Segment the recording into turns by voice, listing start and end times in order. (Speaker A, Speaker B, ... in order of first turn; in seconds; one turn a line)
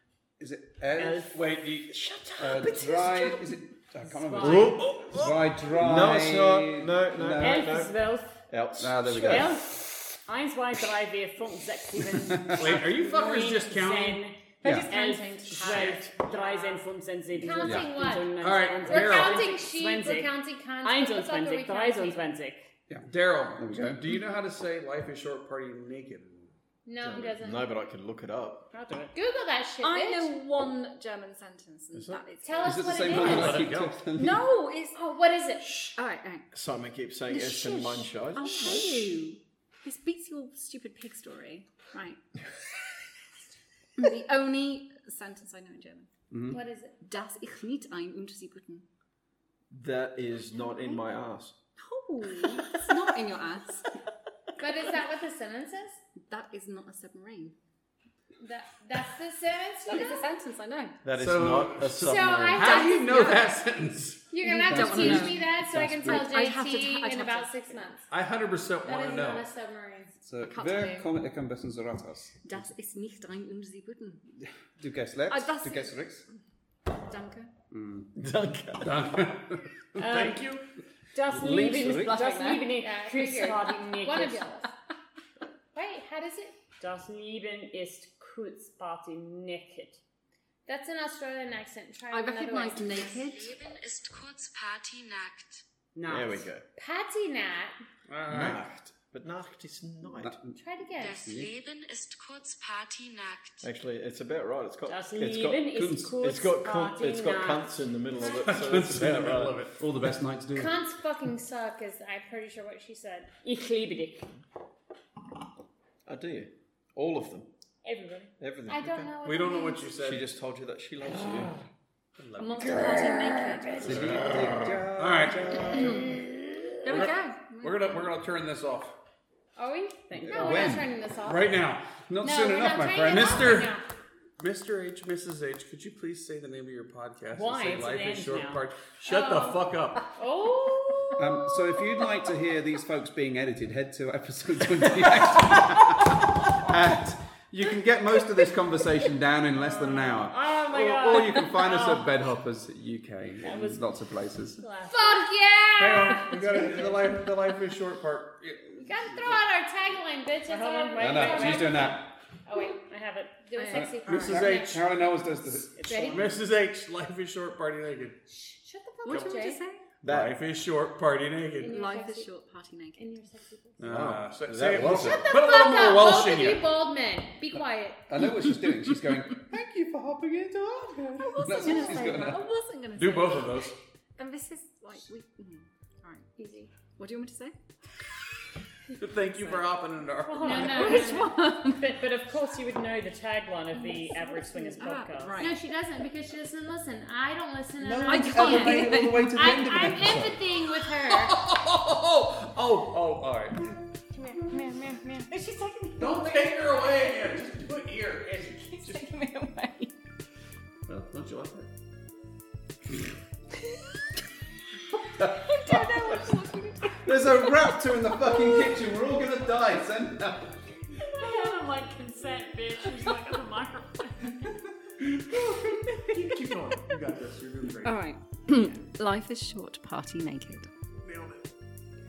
Speaker A: 0.4-1.4
Speaker B: 1.0-2.6
Speaker A: 2.4-7.7
Speaker C: 2.9-3.4
Speaker D: 4.0-4.8
Speaker E: 4.4-7.9
Speaker D: 7.4-8.4
Speaker E: 8.5-9.6
Speaker A: 8.8-9.6
Speaker D: 9.1-22.7
Speaker A: 12.1-12.8
Speaker B: 12.6-14.2
Speaker A: 14.6-15.2
Speaker F: 14.7-16.8
Speaker B: 15.5-16.1
Speaker F: 17.3-22.2
Speaker A: 17.6-17.9
Speaker B: 18.4-19.5
Speaker A: 22.9-24.1
Speaker B: 23.1-26.5
Speaker F: 26.9-27.7
Speaker E: 27.0-28.7
Speaker D: 28.7-29.1
Speaker F: 29.1-30.4
Speaker C: 29.8-33.4
Speaker B: 31.9-32.2
Speaker F: 32.4-33.7
Speaker A: 32.6-34.5
Speaker B: 33.1-34.0
Speaker C: 34.1-35.0
Speaker F: 34.9-35.9
Speaker C: 35.9-36.5
Speaker E: 36.5-39.1
Speaker C: 37.3-42.2
Speaker C: 44.0-46.1
Speaker A: 46.3-46.6
Speaker F: 46.5-47.0
Speaker C: 47.0-48.9
Speaker E: 49.7-51.5
Speaker C: 50.6-51.0
Speaker C: 51.8-53.9
Speaker F: 54.6-56.0
Speaker C: 56.3-57.5
Speaker F: 58.4-60.3
Speaker C: 59.9-61.0
Speaker E: 61.0-62.8
Speaker B: 61.1-64.3
Speaker F: 62.0-63.4
Speaker C: 62.6-63.5
Speaker F: 64.3-68.0
Speaker C: 64.4-67.9
Speaker A: 64.7-66.4
Speaker B: 68.1-69.5
Speaker F: 68.8-70.2
Speaker A: 70.2-72.7
Speaker C: 70.4-71.1
Speaker C: 72.4-74.3
Speaker A: 74.4-76.2
Speaker C: 75.3-76.4
Speaker C: 76.9-77.5
Speaker A: 77.7-78.1
Speaker E: 78.2-79.2
Speaker B: 78.8-80.6
Speaker D: 80.0-80.5
Speaker D: 81.2-84.5
Speaker C: 81.2-82.8
Speaker A: 81.5-81.9
Speaker F: 82.6-84.7
Speaker F: 85.7-86.6
Speaker D: 86.8-90.0
Speaker F: 90.7-93.2
Speaker C: 92.1-93.6
Speaker G: 93.2-95.6
Speaker D: 95.9-96.5
Speaker E: 96.1-96.7
Speaker F: 96.8-97.8
Speaker B: 98.1-98.6
Speaker E: 98.3-100.4
Speaker A: 100.2-100.6
Speaker F: 100.6-101.3
Speaker G: 101.0-103.7
Speaker A: 101.2-101.5
Speaker E: 103.6-109.6
Speaker D: 104.9-107.8
Speaker A: 105.7-106.1
Speaker F: 108.2-108.7
Speaker B: 108.3-109.8
Speaker A: 109.8-110.8
Speaker F: 110.5-113.3
Speaker D: 113.4-114.3
Speaker E: 116.0-117.5
Speaker D: 117.8-118.3
Speaker E: 118.4-119.1
Speaker F: 118.7-119.9
Speaker B: 119.2-120.3
Speaker E: 120.0-121.5
Speaker B: 122.2-123.1
Speaker C: 122.4-124.0
Speaker A: 123.8-126.2
Speaker B: 123.9-126.1
Speaker C: 125.7-126.2
Speaker C: 126.8-128.1
Speaker B: 126.8-128.9
Speaker F: 129.6-131.6
Speaker D: 130.1-130.7
Speaker A: 130.1-130.9
Speaker B: 131.2-132.0
Speaker A: 132.0-133.7
Speaker F: 132.2-133.8
Speaker B: 133.1-133.7
Speaker B: 134.4-140.1
Speaker D: 137.3-138.7
Speaker F: 139.0-142.1
Speaker A: 141.2-154.6
Speaker D: 149.9-152.1
Speaker D: 153.4-153.8
Speaker D: 154.6-155.3
Speaker F: 154.9-156.6
Speaker B: 155.8-159.4
Speaker F: 158.8-162.8
Speaker D: 160.5-161.9
Speaker A: 161.0-162.1
Speaker D: 162.7-163.6
Speaker F: 163.4-165.2
Speaker C: 163.6-164.3
Speaker A: 163.7-166.3
Speaker B: 164.1-164.8
Speaker D: 165.7-166.3
Speaker F: 165.8-166.4
Speaker B: 166.0-168.2
Speaker F: 168.3-169.6
Speaker C: 169.0-169.9
Speaker E: 170.0-170.4
Speaker B: 170.0-171.8
Speaker F: 171.6-172.3
Speaker C: 171.6-173.1
Speaker F: 173.0-173.8
Speaker E: 173.8-175.3
Speaker B: 173.8-176.8
Speaker F: 174.8-178.2
Speaker A: 178.1-182.5
Speaker C: 181.2-186.3
Speaker B: 182.9-183.7
Speaker F: 186.4-186.7
Speaker C: 187.0-187.6
Speaker B: 189.0-191.1
Speaker C: 189.3-189.7
Speaker C: 190.4-191.9
Speaker F: 190.4-191.4
Speaker D: 190.4-195.4
Speaker C: 193.8-195.6
Speaker F: 195.4-201.4
Speaker A: 197.8-200.5
Speaker C: 198.0-199.6
Speaker B: 201.0-203.7
Speaker F: 204.1-205.3
Speaker C: 205.3-207.2
Speaker B: 206.0-209.0
Speaker C: 208.4-209.9
Speaker B: 210.9-211.7
Speaker A: 215.2-216.1
Speaker C: 215.2-218.8
Speaker A: 217.0-220.6
Speaker D: 221.1-224.5
Speaker B: 225.1-228.0
Speaker C: 225.6-226.5
Speaker C: 227.8-230.7
Speaker B: 231.0-231.4